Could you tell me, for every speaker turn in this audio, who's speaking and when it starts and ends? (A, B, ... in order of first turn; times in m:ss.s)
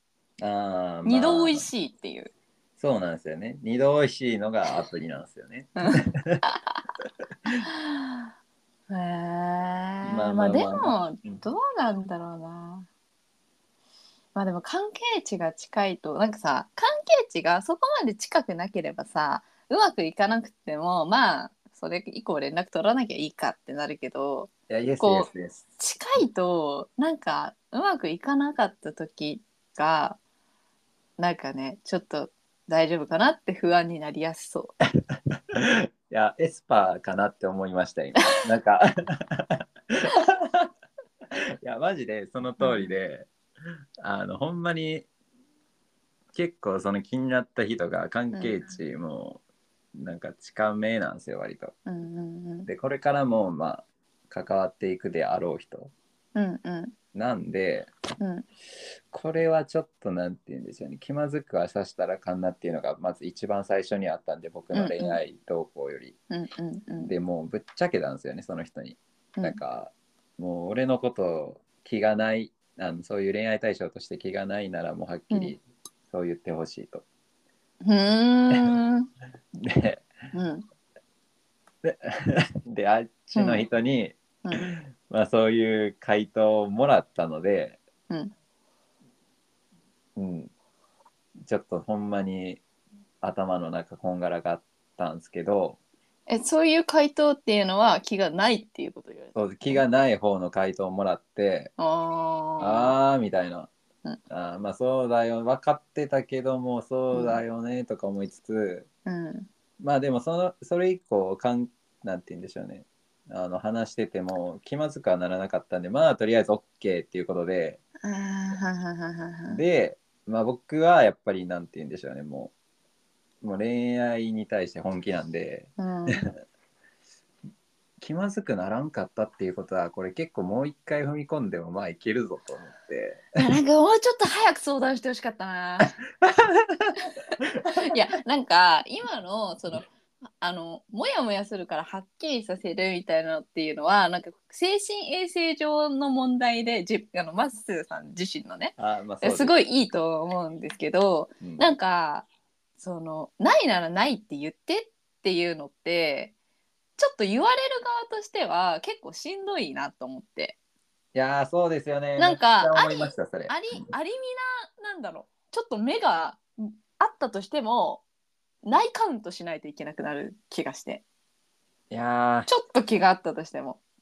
0:00.4-0:01.7 A
0:01.0-0:02.3 B
0:02.8-0:06.4 A
0:05.8-0:06.8 B
0:07.6-0:08.2 B
0:08.9-0:12.9 B
0:10.0-0:11.0 A
0:14.4-0:30.2 B
0:24.7-0:25.7 A
0:31.2-0:34.7 B
0:35.5-0:40.7 A
0:41.6-0:43.3 A
0:42.6-0:42.9 B
0:44.0-0:45.1 A
0:46.3-0:49.4 A
0:48.3-0:48.6 B
0:50.0-0:51.7 A
0:51.9-0:52.7 B
0:52.7-0:55.9 A
0:56.4-0:56.9 B
0:57.1-0:57.9 A
0:58.2-0:58.5 B
0:59.1-1:06.2 A
1:04.7-1:05.2 B
1:06.3-1:07.1 B
1:07.0-1:17.0 A
1:17.8-1:19.1 B
1:19.5-1:20.0 A
1:20.3-1:20.6 B
1:21.8-1:27.8 A
1:23.4-1:23.6 B
1:30.2-1:30.5 A
1:31.4-1:32.6 A
1:33.2-1:35.8 A
1:36.3-1:39.8 B
1:39.4-1:41.7 A
1:41.8-1:43.0 B
1:42.6-1:43.7 A
1:44.3-1:48.9 A
1:47.1-1:47.4 B
1:49.1-1:49.5 B
1:49.8-1:57.8 A
1:58.0-1:59.6 B
1:59.5-2:02.5 A
2:03.4-2:06.3 A
2:05.8-2:06.3 B
2:08.0-2:13.3 A
2:13.4-2:16.0 B
2:16.2-2:16.9 A
2:17.7-2:19.9 B
2:20.4-2:36.3 B
2:28.8-2:29.6 A
2:37.0-2:40.6 B
2:41.1-2:43.6 A
2:42.2-2:48.0 B
2:48.6-2:51.0 B
2:51.9-2:52.5 A
2:52.5-2:53.8 B